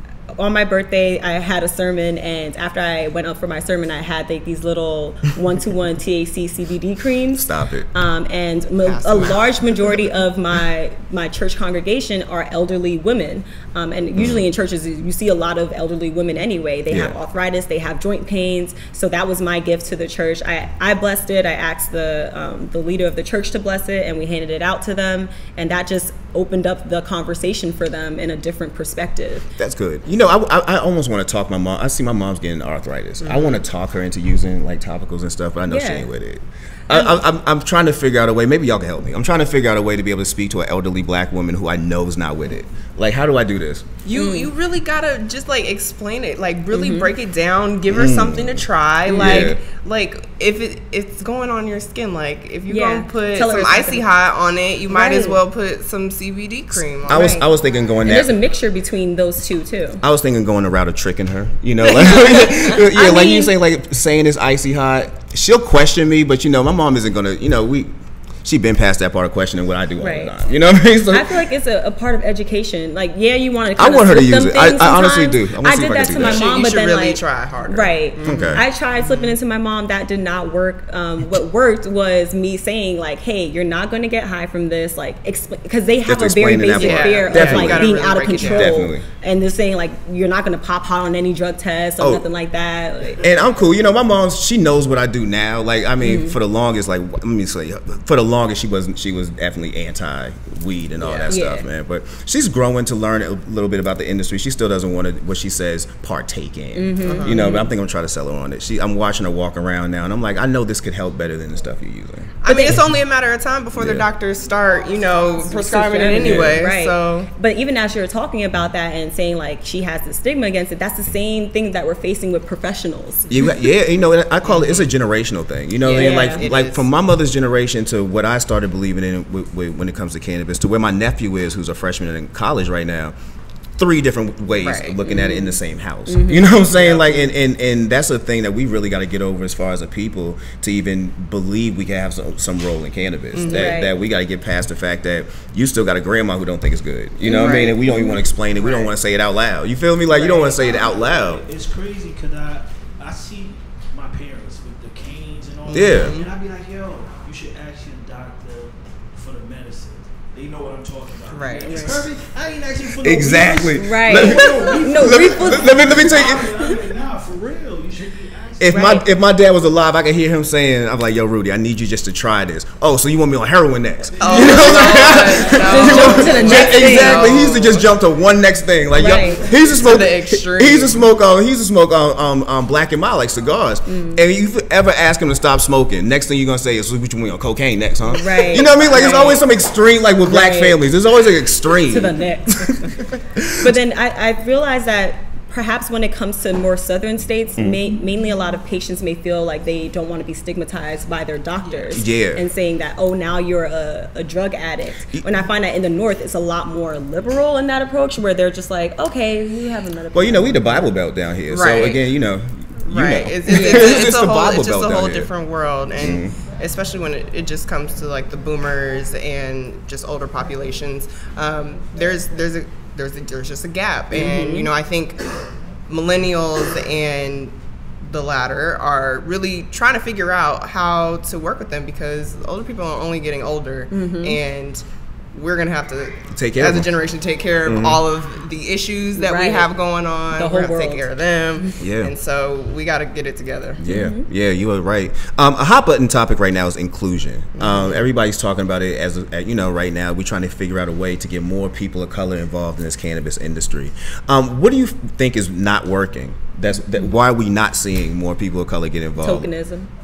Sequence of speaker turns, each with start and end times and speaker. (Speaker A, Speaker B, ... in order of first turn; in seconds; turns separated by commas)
Speaker A: 0.4-29.5, Speaker B: 7.3-7.9, Speaker C: 8.8-9.6, Speaker B: 14.2-14.4, Speaker B: 16.9-17.2, Speaker B: 29.6-43.9, Speaker C: 33.2-33.6, Speaker A: 35.7-36.1, Speaker A: 36.9-37.2, Speaker C: 44.0-57.4, Speaker A: 44.1-44.5, Speaker A: 46.7-47.1, Speaker B: 47.9-48.6, Speaker A: 49.1-49.5, Speaker B: 49.1-49.6, Speaker A: 52.7-54.1, Speaker A: 54.9-55.4, Speaker B: 57.1-58.4, Speaker A: 57.1-57.5, Speaker A: 58.0-60.0, Speaker B: 60.0-67.9, Speaker A: 61.8-63.5, Speaker B: 68.4-71.4, Speaker A: 70.0-70.4, Speaker A: 71.1-93.3, Speaker B: 73.8-76.5, Speaker C: 76.2-78.5, Speaker B: 78.2-78.6, Speaker C: 79.0-79.3, Speaker B: 86.0-89.0, Speaker C: 86.8-88.7, Speaker B: 92.0-92.2, Speaker B: 93.2-112.7, Speaker A: 96.0-96.4, Speaker C: 101.0-101.4, Speaker A: 101.3-101.7, Speaker A: 106.7-107.7, Speaker C: 107.0-107.5, Speaker C: 112.4-117.3, Speaker A: 112.5-112.8, Speaker B: 113.7-114.1, Speaker A: 115.4-123.3, Speaker B: 116.2-116.6, Speaker B: 123.3-133.1, Speaker C: 124.4-124.9, Speaker C: 125.8-126.9, Speaker A: 125.9-126.5, Speaker B: 133.8-151.4, Speaker C: 134.6-135.0, Speaker A: 135.0-136.6, Speaker C: 136.7-137.3, Speaker C: 143.3-143.7, Speaker A: 143.4-143.9, Speaker A: 147.2-148.2, Speaker C: 147.3-147.8, Speaker C: 148.5-148.9, Speaker A: 150.1-150.5, Speaker D: 150.2-169.0, Speaker B: 155.7-156.2, Speaker C: 155.7-156.3, Speaker C: 161.3-162.1, Speaker A: 161.7-162.0, Speaker B: 163.0-166.8, Speaker A: 163.7-166.1, Speaker B: 168.6-193.8, Speaker A: 168.7-169.1, Speaker D: 174.2-177.1, Speaker C: 174.2-177.9, Speaker A: 175.6-177.3, Speaker A: 178.9-179.5, Speaker C: 179.5-181.1, Speaker A: 183.8-184.2, Speaker A: 188.1-189.4, Speaker C: 188.6-189.4, Speaker A: 190.2-190.8, Speaker A: 191.9-192.8, Speaker A: 193.6-210.9, Speaker B: 201.9-202.4, Speaker B: 210.1-215.3, Speaker C: 211.5-212.0, Speaker C: 212.9-225.2, Speaker A: 213.5-213.9, Speaker B: 216.0-216.3, Speaker A: 224.1-224.7, Speaker C: 225.9-234.8, Speaker A: 233.9-234.4, Speaker C: 235.3-243.8, Speaker B: 236.3-236.9, Speaker B: 237.7-238.0, Speaker A: 239.2-239.7, Speaker A: 240.3-241.1, Speaker B: 241.8-242.1, Speaker B: 243.8-259.5, Speaker A: 243.9-244.3, Speaker C: 247.6-248.0, Speaker A: 259.2-259.9